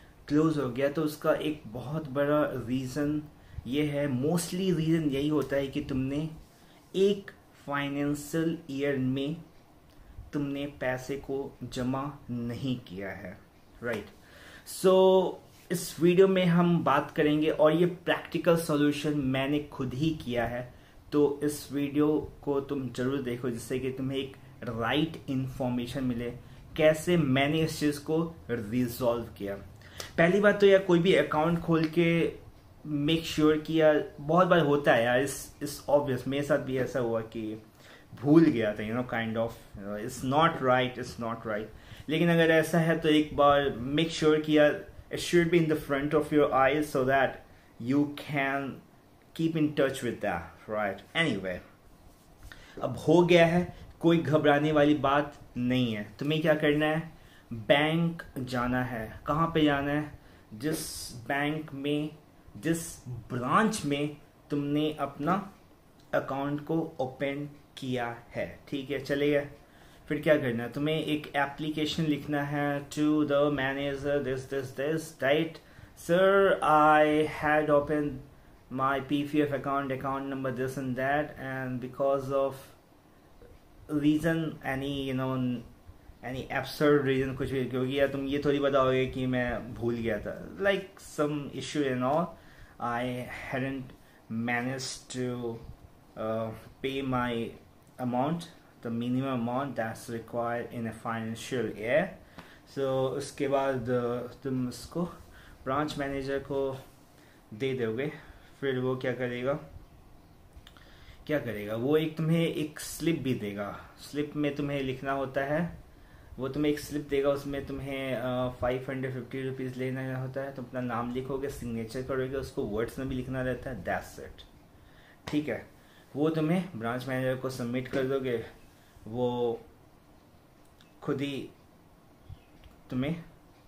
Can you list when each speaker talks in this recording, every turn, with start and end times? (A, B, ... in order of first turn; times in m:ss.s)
0:00.3-0:06.4 A
0:06.9-0:09.4 A
0:10.3-0:14.1 A
0:14.6-0:29.6 A
0:30.2-0:48.8 A
0:49.3-0:51.6 A
0:52.8-1:05.5 A
1:06.1-1:09.5 A
1:10.1-1:22.8 A
1:23.9-1:25.7 A
1:26.2-1:35.6 A
1:36.2-1:45.1 A
1:45.6-1:46.8 A
1:47.5-1:49.6 A
1:51.2-1:55.8 A
1:56.4-2:04.5 A
2:05.2-2:08.5 A
2:09.0-2:09.6 A
2:11.0-2:11.5 A
2:12.9-2:13.2 A